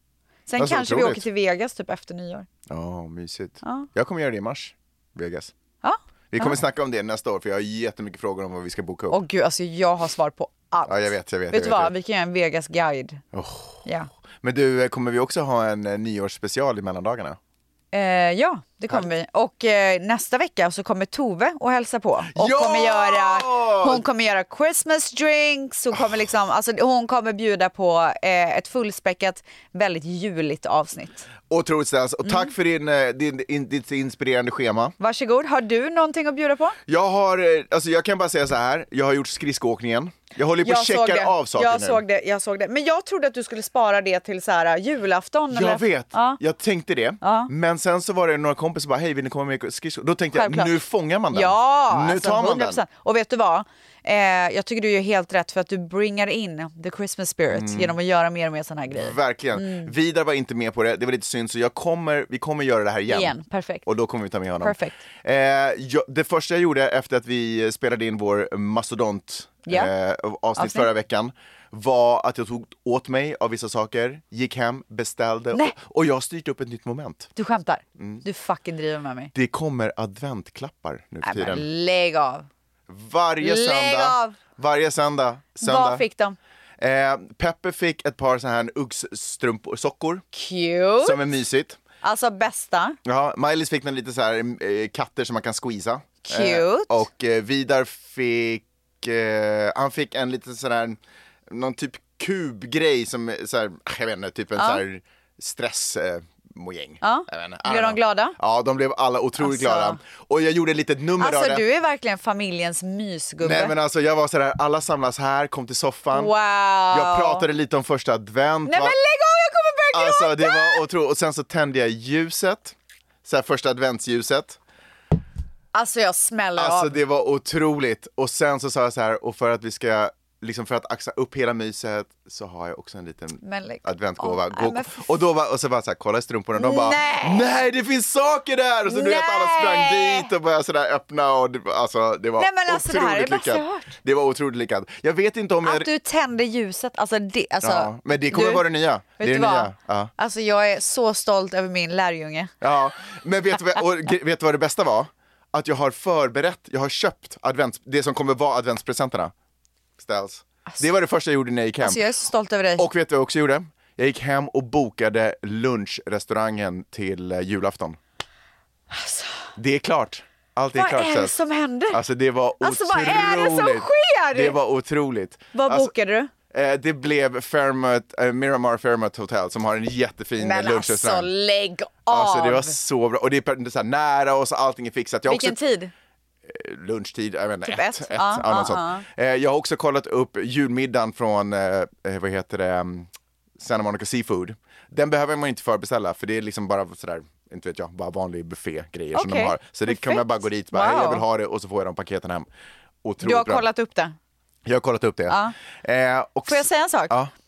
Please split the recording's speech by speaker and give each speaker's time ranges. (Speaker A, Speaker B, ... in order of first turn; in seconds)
Speaker A: 0.5-2.5, 3.6-3.9, 5.8-6.6, 9.1-13.2, 17.9-31.3, 35.0-36.8, 40.6-46.4, 47.2-47.5, 50.3-50.8, 51.3-59.9, 63.1-63.8, 64.6-65.0, 69.7-69.9, 70.6-70.9, 77.3-79.3, 81.2-82.5, 83.4-84.4, 85.6-86.4, 90.3-91.2, 92.0-93.0, 96.2-97.0, 104.5-104.8, 107.0-108.4, 109.4-110.0, 111.2-113.8, 116.1-117.5, 118.7-120.8, 125.7-127.0, 133.4-135.2, 136.5-137.5, 138.9-140.3, 142.4-143.9, 145.6-148.6, 149.2-152.5, 161.8-162.9, 168.9-169.5, 170.7-172.0, 172.6-174.6, 175.5-176.3, 180.4-182.8, 185.2-185.9, 187.6-189.0, 199.1-201.2, 203.2-204.1, 205.3-205.5, 206.4-207.1
Speaker B: 0.6-1.3, 2.7-5.5, 6.3-9.2, 10.9-11.9, 13.3-13.8, 14.4-17.4, 22.3-24.0, 31.5-34.9, 36.9-42.0, 45.5-52.8, 57.5-58.0, 58.9-77.3, 78.0-78.2, 79.3-81.7, 82.9-86.0, 86.8-90.2, 91.0-91.8, 93.0-111.6, 113.4-116.3, 116.9-119.0, 119.9-124.6, 126.5-145.9, 147.6-150.1, 152.6-159.3, 160.0-162.0, 162.8-168.0, 169.6-171.3, 171.9-175.9, 176.5-181.3, 182.1-185.6, 186.4-202.5, 203.0-203.7, 204.6-207.3